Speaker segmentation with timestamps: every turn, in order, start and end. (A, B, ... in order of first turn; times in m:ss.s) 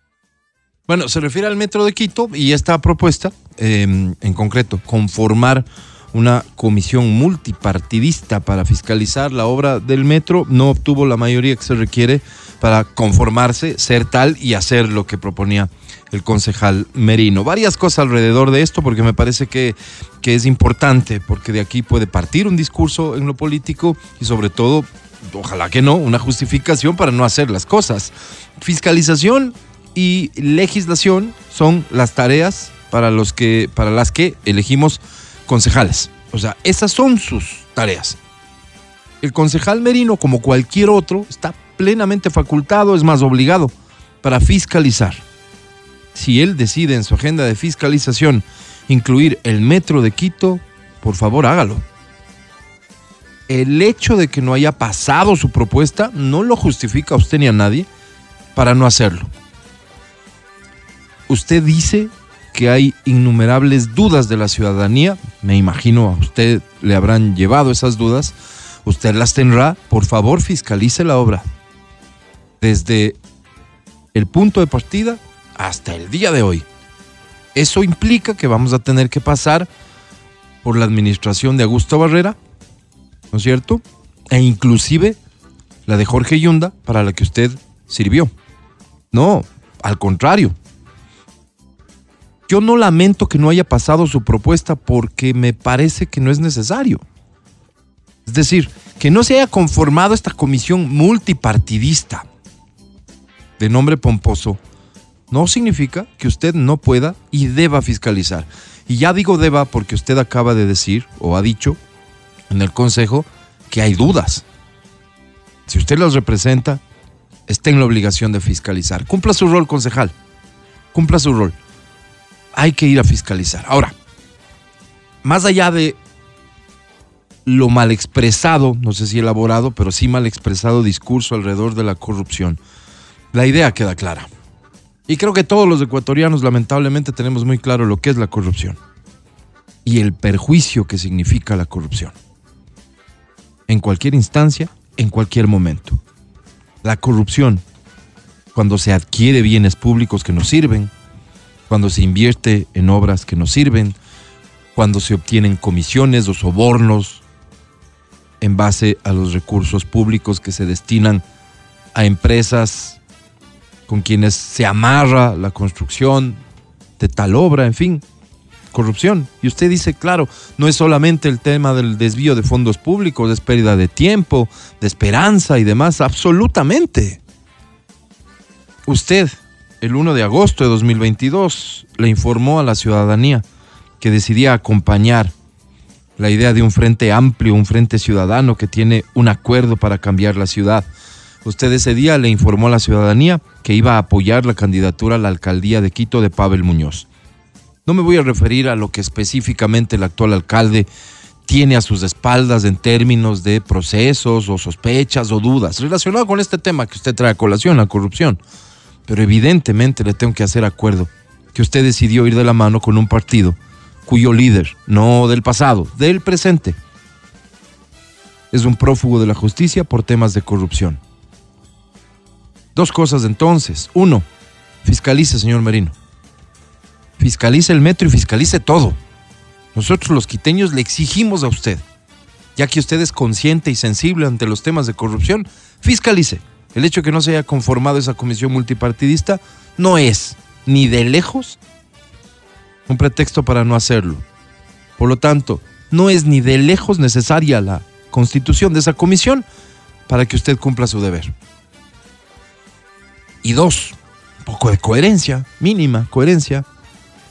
0:00.9-0:38.2 A
0:39.2-0:45.2 A
0:46.1-0:51.8 A
0:53.5-0:57.9 A
0:58.5-0:59.3 A
1:01.3-1:11.5 A
1:12.6-1:13.2 A
1:14.1-1:16.6 A
1:17.5-1:19.7 A
1:20.6-1:22.4 A
1:23.3-1:25.2 A
1:25.8-1:28.3 A
1:29.1-1:30.6 A
1:32.5-1:37.0 A
1:38.2-1:42.2 A
1:43.6-1:44.6 A
1:45.3-1:51.8 A
1:52.5-1:54.4 A
1:55.7-1:56.8 A
1:57.5-2:00.1 A
2:00.9-2:01.6 A
2:02.5-2:03.9 A
2:05.2-2:06.0 A
2:07.4-2:12.6 A
2:13.3-2:14.3 A
2:15.1-2:18.8 A
2:19.8-2:22.1 A
2:23.7-2:26.0 A
2:26.8-2:27.6 A
2:28.5-2:30.9 A
2:31.7-2:34.0 A
2:34.7-2:37.2 A
2:38.4-2:41.2 A
2:41.9-2:43.0 A
2:43.9-2:46.4 A
2:47.0-2:48.0 A
2:48.7-2:57.2 A
2:58.8-3:03.4 A
3:04.0-3:05.3 A
3:06.2-3:10.9 A
3:11.4-3:17.1 A
3:17.8-3:20.9 A
3:21.5-3:28.4 A
3:29.1-3:36.8 A
3:38.5-3:41.0 A
3:42.7-3:44.2 A
3:44.8-3:45.9 A
3:47.2-3:49.0 A
3:49.7-3:51.8 A
3:52.6-4:01.6 A
4:02.9-4:04.2 A
4:05.0-4:09.4 A
4:10.1-4:11.3 A
4:13.4-4:16.6 A